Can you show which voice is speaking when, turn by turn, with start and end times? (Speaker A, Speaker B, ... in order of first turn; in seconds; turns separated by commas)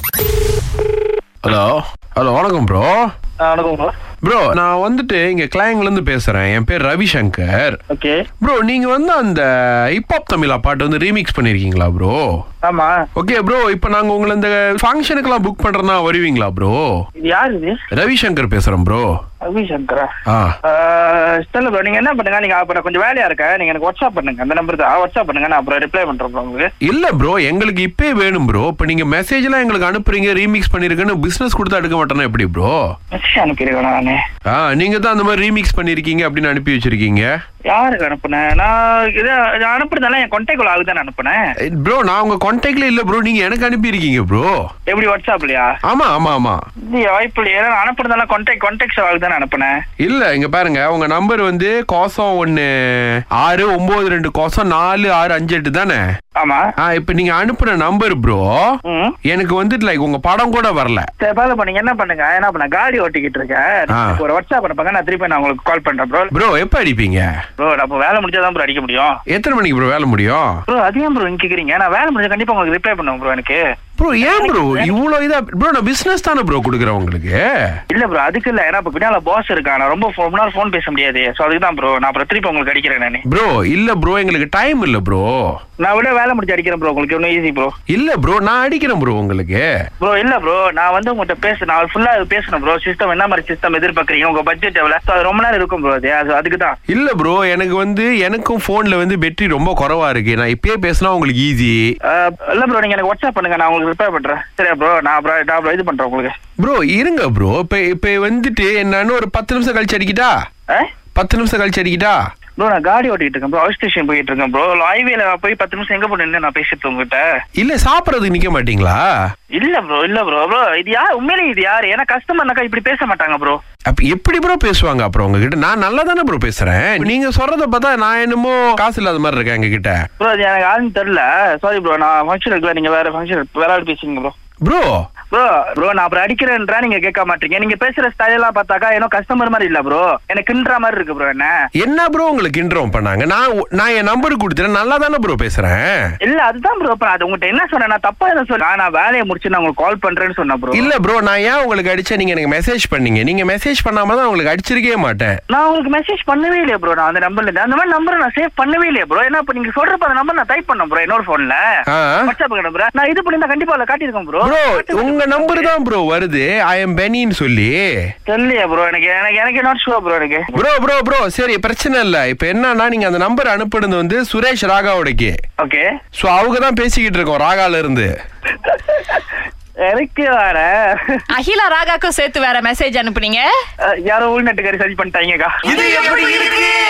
Speaker A: 1.4-3.1, Speaker B: 3.4-3.9, Speaker A: 4.2-7.8, Speaker B: 7.9-8.2, Speaker A: 8.4-12.2, Speaker B: 12.6-13.0, Speaker A: 13.2-16.9, Speaker B: 17.2-17.8, Speaker A: 17.9-19.1, Speaker B: 19.4-20.1, Speaker A: 20.3-20.6, Speaker B: 20.6-26.7, Speaker A: 26.8-32.8, Speaker B: 33.1-34.2, Speaker A: 34.5-37.2, Speaker B: 37.7-41.4, Speaker A: 41.7-44.5, Speaker B: 44.9-45.7, Speaker A: 45.9-46.6, Speaker B: 46.9-49.8, Speaker A: 50.0-56.0, Speaker B: 56.4-56.6, Speaker A: 56.8-58.6, Speaker B: 58.8-59.1, Speaker A: 59.3-61.1, Speaker B: 61.2-66.3, Speaker A: 63.9-64.2, Speaker A: 66.3-67.3, Speaker B: 67.6-69.2, Speaker A: 69.3-70.6, Speaker B: 70.7-73.6, Speaker A: 74.0-77.4, Speaker B: 74.2-74.9, Speaker B: 77.9-83.2, Speaker A: 83.3-85.4, Speaker B: 85.8-87.7, Speaker A: 87.9-89.7, Speaker B: 90.0-96.8, Speaker A: 96.9-101.9, Speaker B: 102.1-106.3, Speaker A: 106.6-110.3, Speaker A: 111.2-112.2, Speaker B: 112.6-117.2, Speaker A: 117.6-119.1, Speaker B: 119.6-123.6, Speaker A: 123.9-130.0, Speaker B: 130.2-134.3, Speaker A: 134.6-134.9, Speaker B: 135.3-141.5, Speaker A: 141.8-145.9, Speaker B: 146.2-150.9, Speaker A: 150.7-155.3, Speaker B: 155.5-161.6, Speaker A: 161.9-162.3, Speaker B: 162.2-165.7, Speaker A: 164.4-167.8, Speaker B: 168.3-170.6, Speaker A: 170.5-175.4, Speaker B: 175.6-175.9, Speaker A: 176.2-178.1, Speaker B: 178.6-181.2, Speaker C: 181.3-183.5, Speaker B: 183.8-185.6, Speaker A: 186.0-186.4